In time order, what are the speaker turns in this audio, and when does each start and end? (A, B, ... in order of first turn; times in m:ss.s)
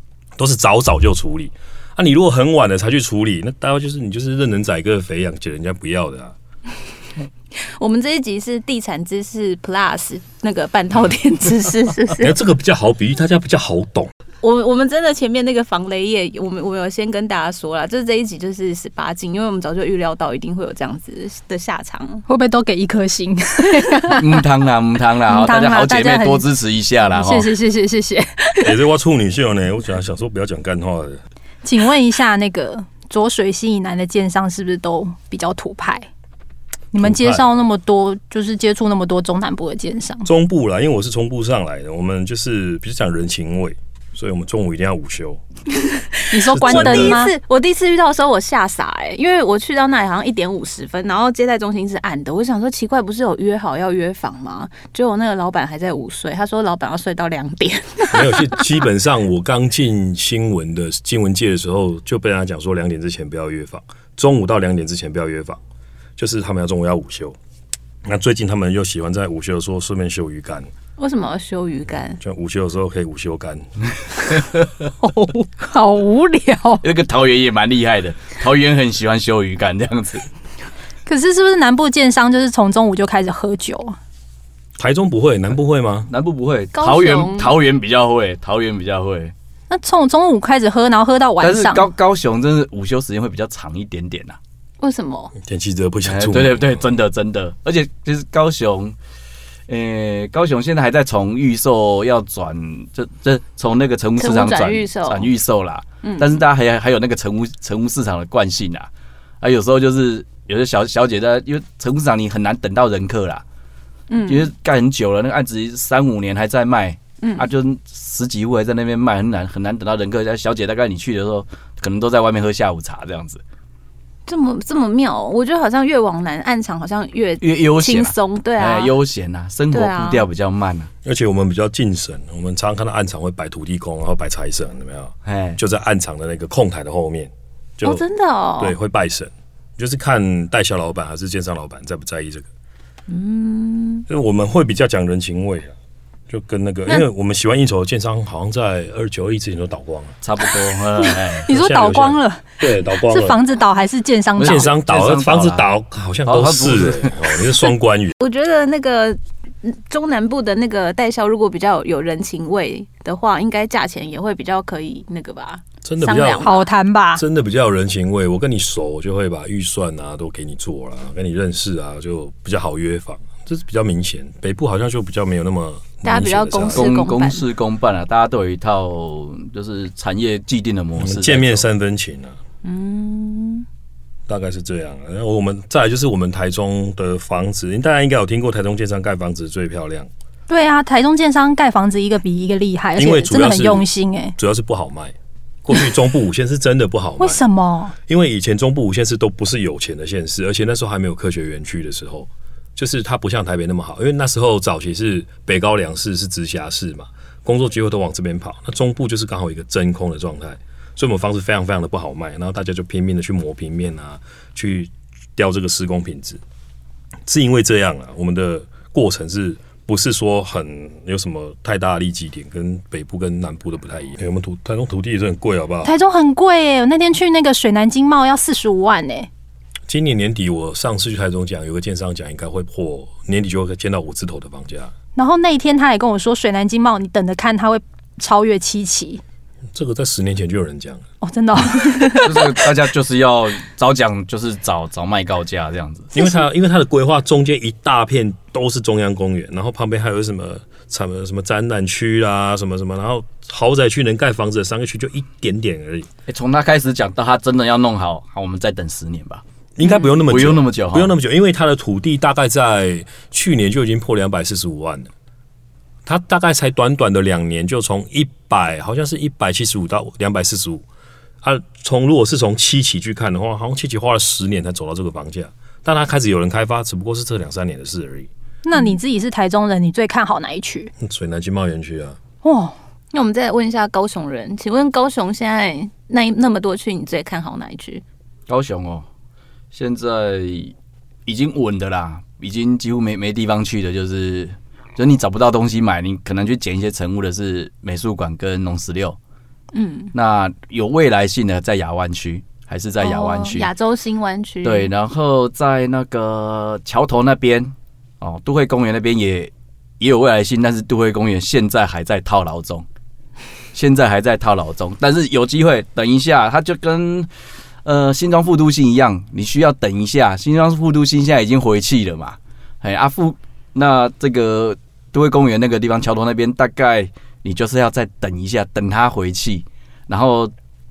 0:00.4-0:06.3 A
0:07.5-0:12.3 B
0:12.2-0:14.1 A
0:14.4-0:22.2 B
0:22.3-0:24.4 C
0:24.2-0:27.5 D
0:25.3-0:26.4 C
0:27.1-0:28.7 C
0:28.6-0:31.2 A
0:31.6-0:36.1 C
0:36.9-0:40.3 C
0:37.0-0:37.4 A
0:40.2-0:45.4 A
0:45.8-0:58.6 B
0:46.3-0:47.3 C
0:46.5-0:47.2 A
0:58.1-1:05.6 A
1:06.2-1:07.4 A
1:08.0-1:10.7 A
1:11.0-1:12.2 B
1:12.2-1:14.4 A
1:15.0-1:16.8 C
1:16.8-1:20.2 D
1:21.0-1:24.0 C
1:24.8-1:26.1 A
1:26.1-1:29.3 D
1:26.8-1:27.5 B
1:29.7-1:31.9 C
1:31.4-1:34.4 D
1:34.8-1:35.3 B
1:35.4-1:36.8 A
1:36.0-1:38.9 D
1:39.7-1:48.9 D
1:44.2-1:45.3 B
1:46.0-1:46.3 B
1:49.4-1:53.4 D
1:54.1-1:54.5 B
1:54.2-2:03.4 D
1:57.2-1:57.5 B
2:04.3-2:08.9 B
2:07.4-2:10.9 D
2:09.7-2:10.2 B
2:11.0-2:18.0 A
2:15.2-2:15.6 D
2:17.8-2:18.7 B
2:18.6-2:22.5 A
2:23.1-2:24.0 B
2:24.1-2:25.7 A
2:26.3-2:30.2 A
2:30.2-2:31.5 D
2:31.0-2:32.4 C
2:31.5-2:33.4 A
2:33.1-2:34.7 C
2:34.4-2:35.7 D
2:34.4-2:38.1 A
2:36.2-2:37.6 D
2:38.2-2:46.7 B
2:45.8-2:46.5 A
2:46.4-2:47.2 C
2:47.2-2:56.9 A
2:56.0-2:57.4 B
2:56.7-3:01.6 D
3:01.0-3:02.4 A
3:02.6-3:03.6 B
3:04.3-3:10.1 A
3:10.5-3:14.4 C
3:13.0-3:13.8 A
3:14.4-3:15.1 A
3:15.6-3:17.4 A
3:17.2-3:17.9 C
3:18.1-3:36.4 A
3:37.2-3:45.9 A
3:45.8-3:49.3 C
3:49.9-3:54.9 A
3:55.2-3:59.2 C
3:59.7-4:01.0 A
4:01.2-4:02.6 C
4:02.2-4:06.1 D
4:06.1-4:16.1 A
4:16.3-4:19.4 D
4:19.8-4:25.1 A
4:19.8-4:20.1 B
4:20.3-4:21.1 D
4:26.0-4:30.8 A
4:31.4-4:38.3 A
4:38.6-4:40.9 C
4:41.0-4:42.2 A
4:42.4-4:42.7 C
4:43.1-4:48.0 B
4:48.5-4:49.0 D
4:49.7-4:50.7 D
4:51.2-4:59.2 D
4:59.7-5:00.1 B
5:00.1-5:03.7 D
5:03.0-5:04.9 B
5:04.6-5:12.8 D
5:13.7-5:17.3 D
5:17.8-5:30.5 D